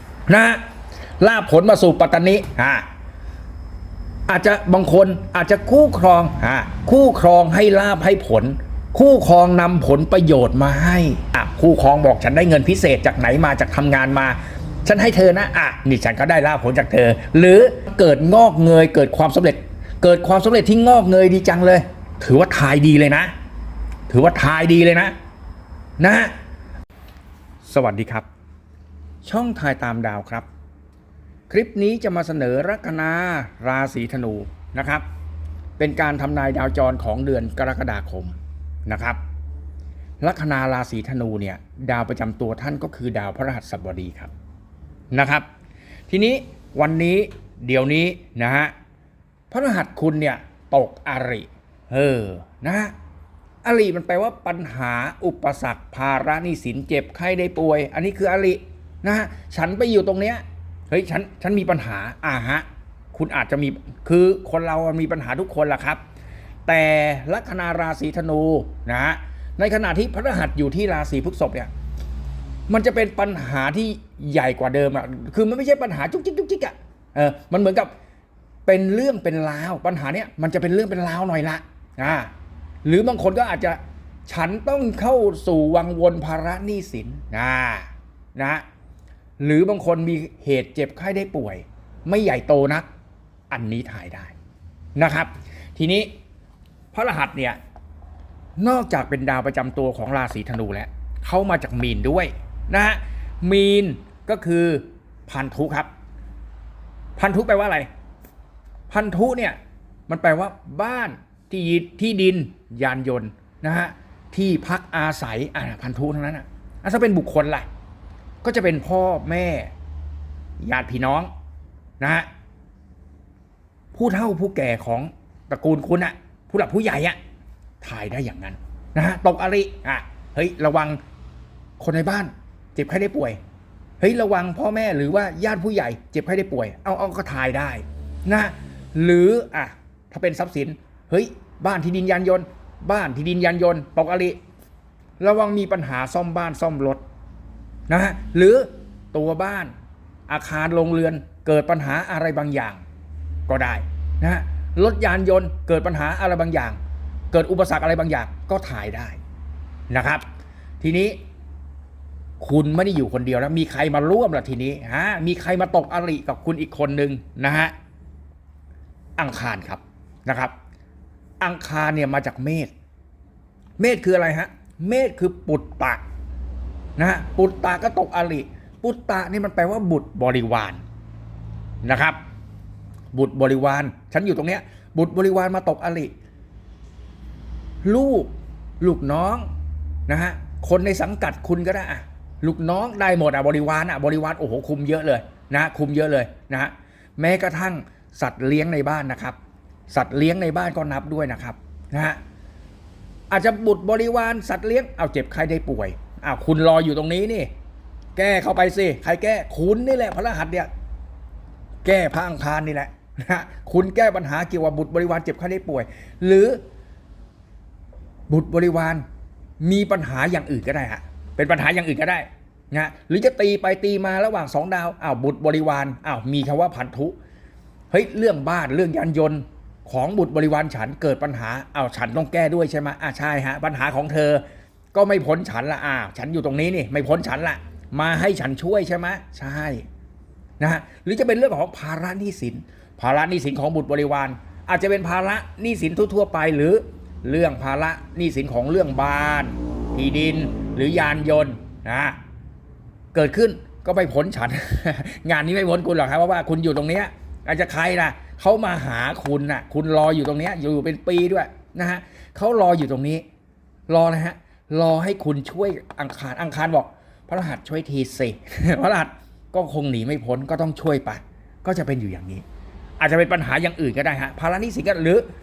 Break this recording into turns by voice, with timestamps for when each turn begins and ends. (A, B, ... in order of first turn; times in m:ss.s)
0:00.3-0:00.6 A
0:01.2-0:02.9 A
0:04.3-0:23.3 A
0:24.1-0:25.1 A
0:26.0-0:26.3 A
0:27.6-0:28.3 A
0:29.2-0:30.5 A
0:31.5-0:35.0 A
0:35.8-0:39.2 A
0:40.2-0:44.3 A
0:45.1-0:45.4 A
0:46.1-0:48.7 A
0:49.5-0:52.9 A
0:53.6-1:06.0 A
1:06.7-1:11.7 A
1:12.7-1:17.9 A
1:18.6-1:22.3 A
1:22.8-1:28.6 A
1:29.4-1:32.9 A
1:33.5-1:34.3 A
1:35.0-1:36.1 A
1:36.9-1:37.6 A
1:38.6-1:45.9 A
1:47.2-1:47.9 A
1:48.9-1:57.7 A
1:58.4-1:59.7 A
2:00.6-2:01.3 A
2:02.0-2:02.3 A
2:03.9-2:07.2 A
2:07.8-2:11.0 A
2:11.8-2:13.4 A
2:14.0-2:24.4 A
2:25.2-2:27.0 A
2:27.9-2:29.7 A
2:30.3-2:32.8 A
2:33.5-2:36.8 A
2:37.3-2:39.2 A
2:39.9-2:40.2 A
2:40.8-2:41.2 A
2:42.4-2:47.7 A
2:49.2-2:50.5 A
2:51.4-2:52.7 A
2:53.8-2:56.0 A
2:57.0-3:00.8 A
3:01.8-3:02.2 A
3:03.1-3:06.1 A
3:07.8-3:09.5 A
3:10.1-3:19.4 A
3:19.9-3:22.2 A
3:23.3-3:27.5 A
3:28.2-3:30.7 A
3:31.8-3:36.6 A
3:38.3-3:39.0 A
3:39.6-3:47.2 A
3:47.9-3:54.4 A
3:54.9-3:59.8 A
4:00.6-4:12.2 A
4:13.1-4:23.2 A
4:23.9-4:32.4 A
4:33.0-4:35.2 A